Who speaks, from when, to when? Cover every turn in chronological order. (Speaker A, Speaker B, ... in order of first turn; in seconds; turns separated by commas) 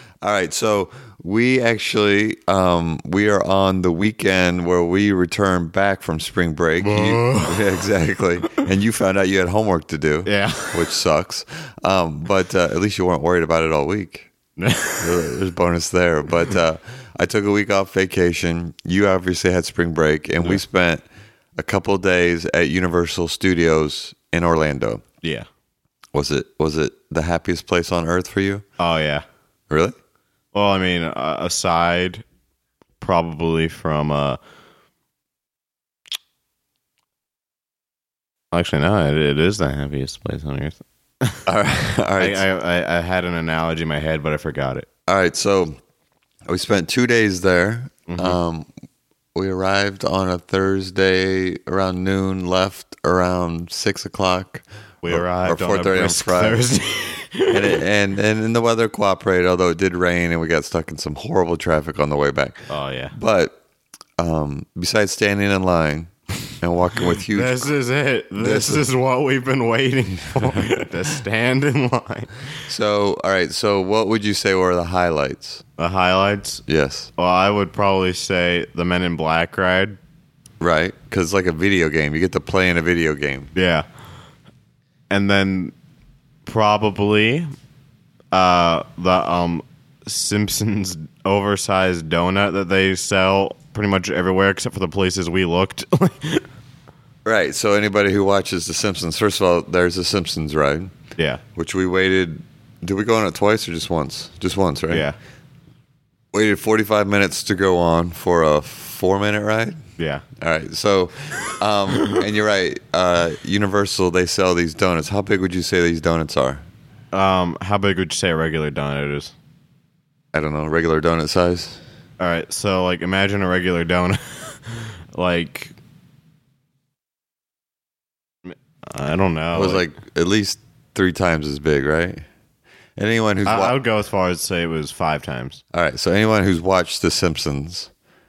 Speaker A: 0.2-14.3, Speaker B: 6.8-7.7, Speaker B: 10.2-10.9, Speaker B: 14.6-15.1, Speaker A: 15.0-21.0, Speaker A: 21.6-25.0, Speaker B: 25.2-25.5, Speaker A: 26.1-28.6, Speaker B: 28.8-29.2, Speaker A: 29.7-29.9, Speaker B: 30.5-32.2, Speaker B: 33.0-34.4, Speaker B: 38.5-41.4, Speaker A: 41.5-42.4, Speaker B: 42.2-44.9, Speaker A: 45.1-45.8, Speaker A: 46.5-48.7, Speaker B: 48.1-48.4, Speaker A: 49.3-56.6, Speaker B: 55.0-57.8, Speaker A: 57.5-63.6, Speaker B: 62.7-63.1, Speaker A: 64.2-67.7, Speaker B: 67.3-72.3, Speaker A: 68.4-68.8, Speaker A: 72.7-75.6, Speaker B: 75.8-76.6, Speaker A: 76.7-77.1, Speaker B: 77.2-80.0, Speaker A: 80.6-83.5, Speaker B: 83.5-83.8, Speaker B: 85.1-85.7, Speaker B: 86.5-87.5, Speaker B: 88.3-96.5, Speaker A: 97.2-100.9, Speaker A: 101.5-105.1, Speaker B: 104.9-105.2, Speaker A: 106.3-109.8, Speaker B: 110.0-110.2, Speaker A: 110.4-116.6, Speaker B: 117.1-119.3, Speaker A: 120.3-121.8, Speaker B: 122.2-125.8, Speaker B: 128.5-129.8, Speaker A: 129.5-132.2, Speaker A: 133.0-133.8, Speaker B: 133.4-135.6, Speaker A: 135.7-137.9